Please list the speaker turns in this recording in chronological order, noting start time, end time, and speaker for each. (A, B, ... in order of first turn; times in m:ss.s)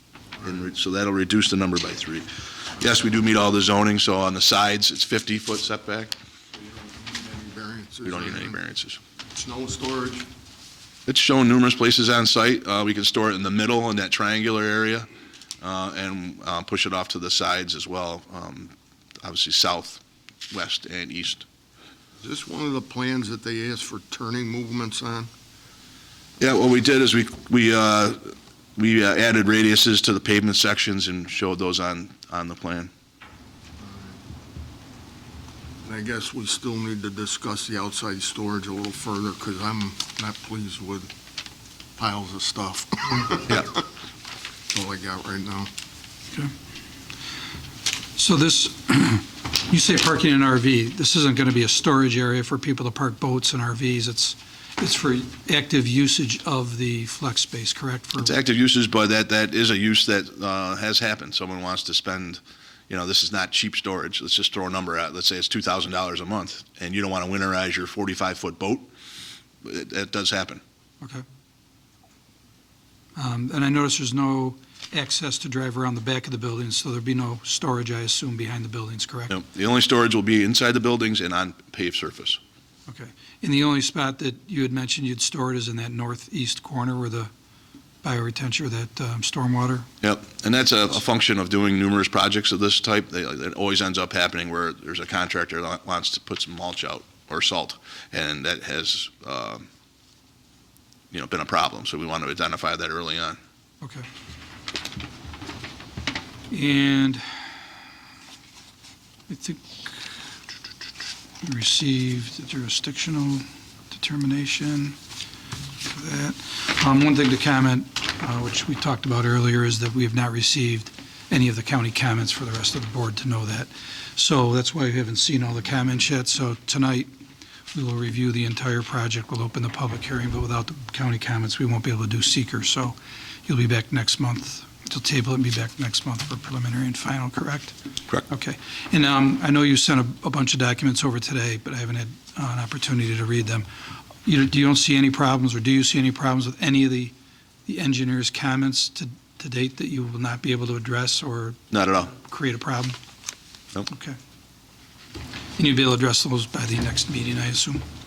0:00.4-0:06.1 A
0:06.6-0:08.6 B
0:08.0-0:09.0 A
0:09.3-0:10.3 B
0:11.1-0:15.1 A
0:15.6-0:21.4 A
0:22.2-0:25.3 B
0:26.4-0:32.9 A
0:33.8-0:34.2 B
0:35.8-0:41.1 B
0:42.0-0:43.8 B
0:44.7-0:45.7 B
0:48.2-0:58.3 C
0:58.2-1:08.9 A
1:09.6-1:10.6 A
1:13.2-1:19.3 C
1:19.3-1:22.4 A
1:22.9-1:27.3 C
1:28.0-1:29.9 C
1:30.0-1:39.6 A
1:41.1-1:43.4 A
1:46.5-1:47.2 C
1:49.3-1:50.0 C
1:51.4-1:55.0 C
1:55.8-2:07.1 C
2:07.7-2:17.7 C
2:18.3-2:23.6 C
2:24.2-2:27.1 C
2:27.6-2:33.0 C
2:31.7-2:32.1 A
2:33.9-2:34.2 C
2:35.6-2:37.8 C